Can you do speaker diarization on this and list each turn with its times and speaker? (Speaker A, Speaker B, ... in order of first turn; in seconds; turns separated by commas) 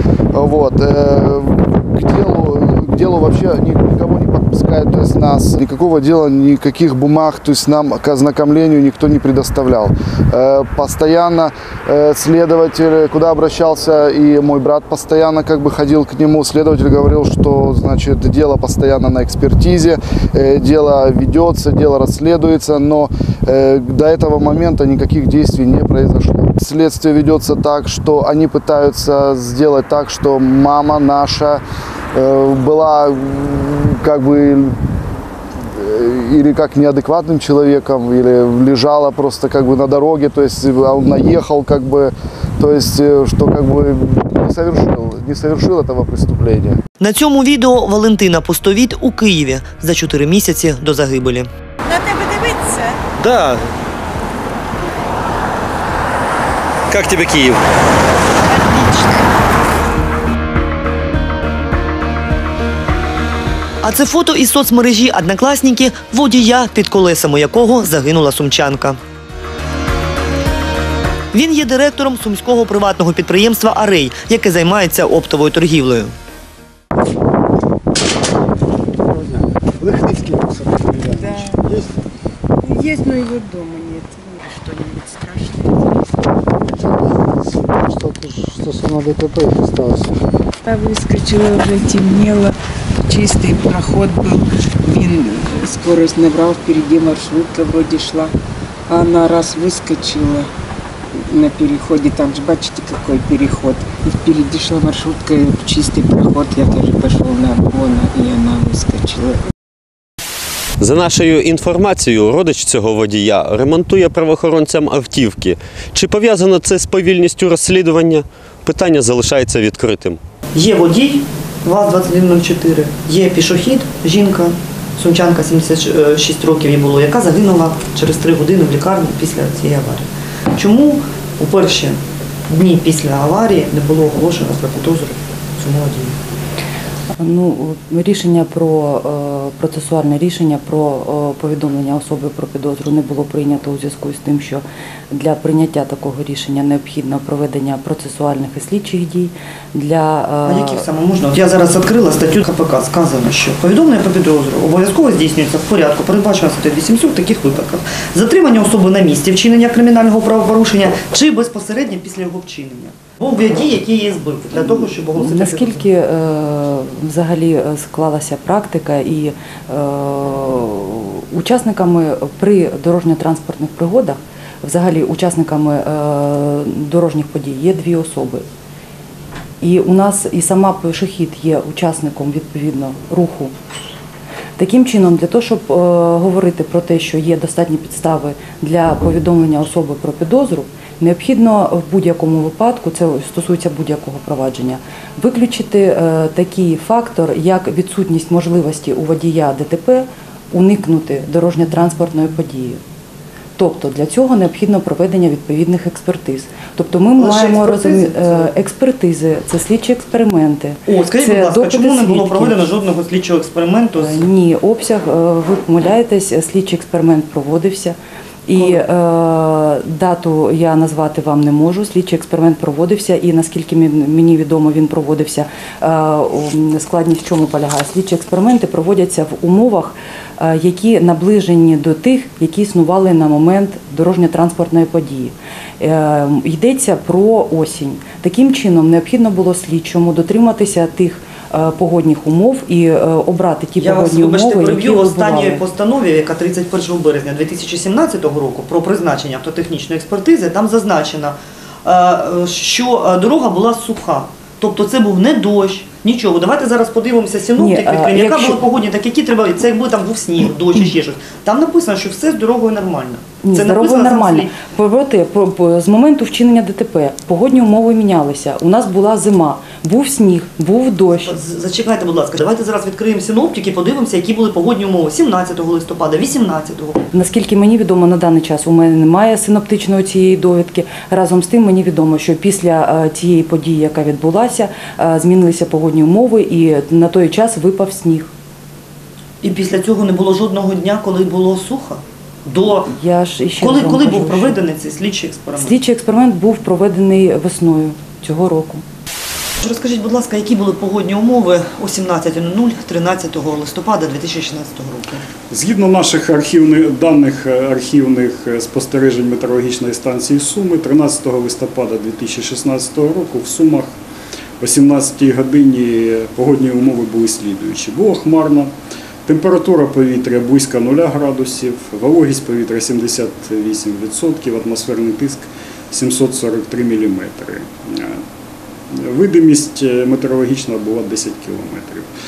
Speaker A: 0.3-31.6, Speaker A: 32.1-34.8, Speaker A: 35.8-46.8, Speaker B: 47.0-51.5, Speaker C: 53.2-53.6, Speaker C: 56.9-57.6, Speaker B: 63.8-69.0, Speaker B: 71.3-76.1, Speaker D: 79.8-81.8, Speaker E: 81.1-81.6, Speaker E: 82.6-86.0, Speaker D: 87.7-90.1, Speaker E: 90.6-92.5, Speaker E: 93.1-98.3, Speaker E: 98.9-100.5, Speaker E: 101.3-109.4, Speaker C: 110.8-120.2, Speaker B: 120.5-136.2, Speaker F: 137.2-150.8, Speaker B: 150.5-165.8, Speaker F: 164.7-178.4, Speaker F: 179.6-183.5, Speaker F: 184.6-202.8, Speaker F: 203.6-212.7, Speaker B: 207.2-208.5, Speaker B: 210.9-214.3, Speaker F: 214.0-245.6, Speaker B: 243.8-264.5, Speaker F: 257.6-258.6, Speaker F: 263.4-271.4, Speaker B: 271.1-277.0, Speaker F: 277.1-288.3, Speaker B: 289.4-292.9, Speaker F: 292.9-294.6, Speaker B: 293.6-295.8, Speaker F: 295.6-298.8, Speaker B: 299.6-305.2, Speaker G: 305.5-313.9, Speaker G: 314.6-318.7, Speaker G: 319.3-328.2, Speaker G: 328.9-332.1